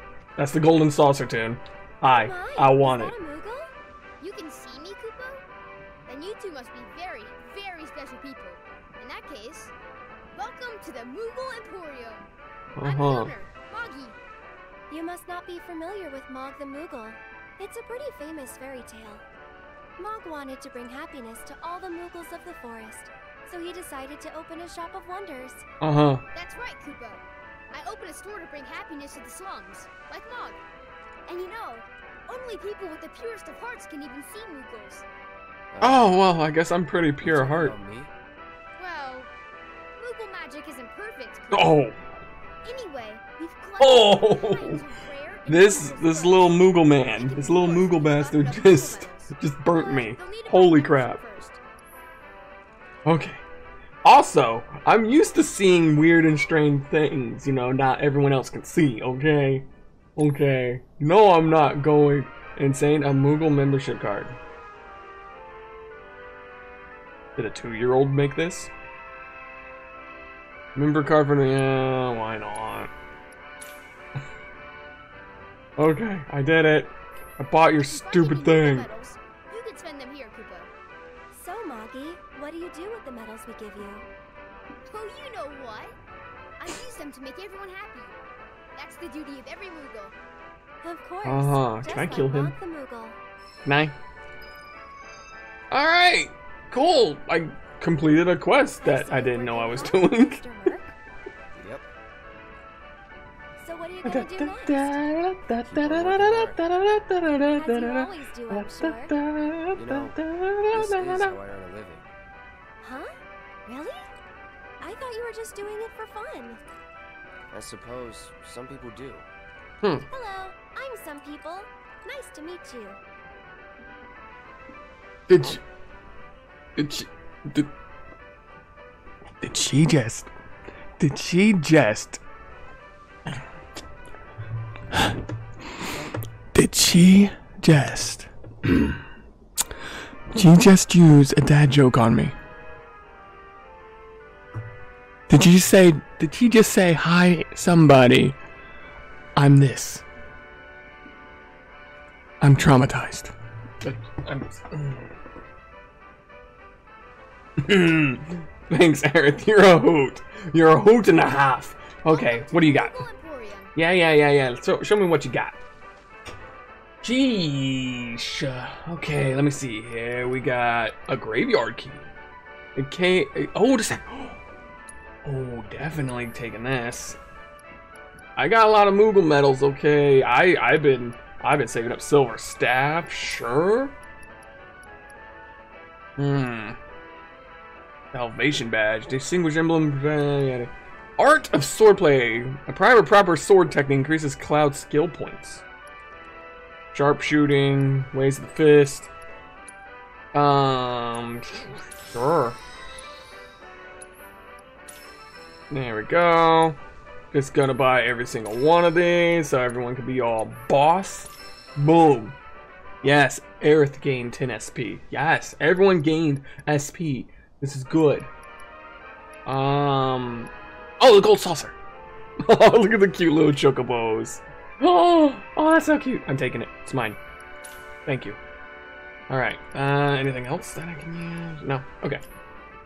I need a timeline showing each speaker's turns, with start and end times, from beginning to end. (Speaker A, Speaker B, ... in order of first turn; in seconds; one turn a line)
Speaker A: 0.4-3.1
Speaker B: 2.0-3.7
Speaker C: 4.2-5.4
Speaker C: 6.0-9.7
Speaker C: 10.3-12.3
Speaker A: 12.8-13.3
Speaker C: 12.8-14.2
Speaker B: 14.9-19.2
Speaker B: 20.0-25.6
Speaker A: 25.8-26.2
Speaker C: 26.3-30.6
Speaker C: 31.2-35.0
Speaker D: 35.7-36.2
Speaker A: 35.8-37.7
Speaker D: 37.2-38.1
Speaker C: 38.8-39.3
Speaker C: 40.0-41.7
Speaker A: 41.5-42.0
Speaker C: 42.6-51.6
Speaker A: 43.8-44.8
Speaker A: 45.5-51.2
Speaker A: 53.0-53.4
Speaker A: 54.0-64.4
Speaker A: 67.3-68.7
Speaker A: 70.7-72.9
Speaker A: 75.8-78.9
Speaker C: 77.8-80.7
Speaker B: 81.3-84.1
Speaker C: 84.9-86.0
Speaker C: 86.6-88.2
Speaker C: 88.8-90.1
Speaker B: 90.8-93.2
Speaker A: 91.2-92.5
Speaker A: 93.6-93.9
Speaker A: 95.7-100.4
Speaker B: 98.8-100.9
Speaker D: 101.5-101.8
Speaker B: 103.6-105.0
Speaker A: 104.0-111.4
Speaker D: 105.6-106.6
Speaker B: 107.6-109.1
Speaker D: 109.7-110.2
Speaker D: 110.7-112.1
Speaker B: 112.8-113.1
Speaker B: 113.7-114.1
Speaker B: 114.8-116.6
Speaker D: 117.5-119.3
Speaker A: 119.8-120.1
Speaker B: 120.1-123.0
Speaker A: 125.3-125.6
Speaker A: 126.8-127.7
Speaker A: 129.4-130.3
Speaker A: 131.0-132.2
Speaker A: 136.5-139.0
Speaker A: 140.3-142.3
Speaker A: 145.3-148.3
Speaker A: 149.3-150.0
Speaker A: 152.4-155.1
Speaker A: 157.6-163.0
Speaker C: 162.0-163.7
Speaker A: 163.7-165.6
Speaker A: 167.0-172.1
Speaker A: 172.7-174.4
Speaker A: 175.2-177.2
Speaker A: 178.3-183.9
Speaker A: 186.2-186.8
Speaker A: 188.1-195.6
Speaker A: 196.9-199.1
Speaker A: 200.3-202.6
Speaker A: 205.7-206.8
Speaker A: 207.3-212.3
Speaker A: 213.0-218.3
Speaker A: 219.4-221.8
Speaker A: 222.4-227.2
Speaker A: 228.1-228.4
Speaker A: 229.3-232.2